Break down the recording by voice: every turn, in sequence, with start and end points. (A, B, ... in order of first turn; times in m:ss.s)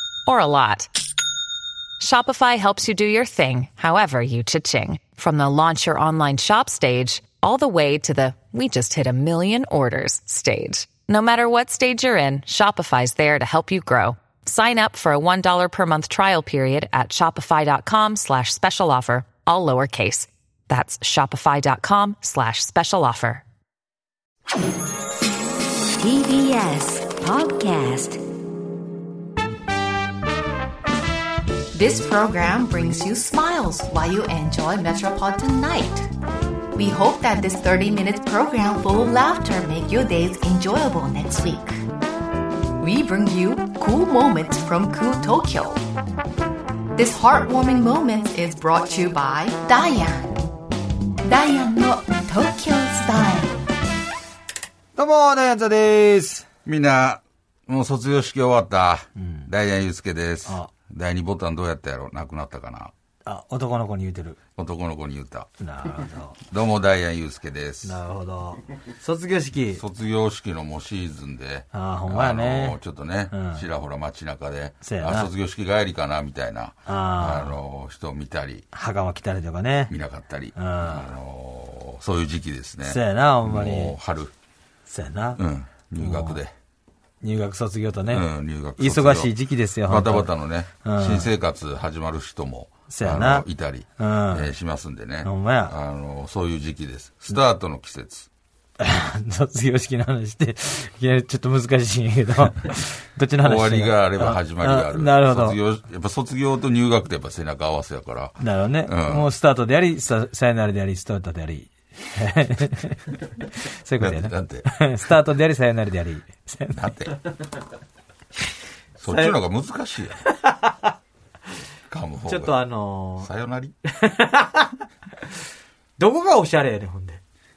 0:00.3-0:00.9 A
0:02.0-0:23.4 A
0:26.0-0:28.2 B
0:31.7-0:36.1 C
0:36.8-0:41.8 C
0:42.8-0:45.8 C
0:47.0-0:50.4 C
0:51.2-0:53.6 C
0:55.0-0:56.5 D
0:56.6-1:02.9 E
0:59.2-0:59.5 D
1:03.3-1:04.4 D
1:04.6-1:05.5 E
1:05.6-1:06.4 D
1:06.4-1:08.0 E
1:07.8-1:09.8 D
1:09.8-1:18.7 E
1:11.7-1:12.8 D
1:13.3-1:13.6 D
1:14.8-1:15.3 D
1:16.9-1:17.5 D
1:18.7-1:19.9 D
1:19.9-1:24.3 E
1:20.6-1:21.1 D
1:22.8-1:23.9 D
1:24.9-1:25.4 D
1:25.4-1:26.5 E
1:26.0-1:26.4 D
1:27.2-1:28.3 D
1:28.1-1:29.3 E
1:28.8-1:30.3 D
1:29.9-1:38.3 E
1:30.8-1:31.3 D
1:32.9-1:33.5 D
1:34.0-1:34.5 D
1:35.2-1:35.8 D
1:38.8-1:45.6 D
1:43.4-1:49.3 E
1:48.4-1:56.9 D
1:54.0-1:54.7 E
1:56.7-1:57.2 E
1:59.0-2:00.2 E
1:59.1-1:59.4 D
2:00.2-2:00.9 D
2:01.9-2:02.6 E
2:02.3-2:03.3 D
2:03.2-2:03.8 E
2:03.9-2:04.8 D
2:06.0-2:07.2 D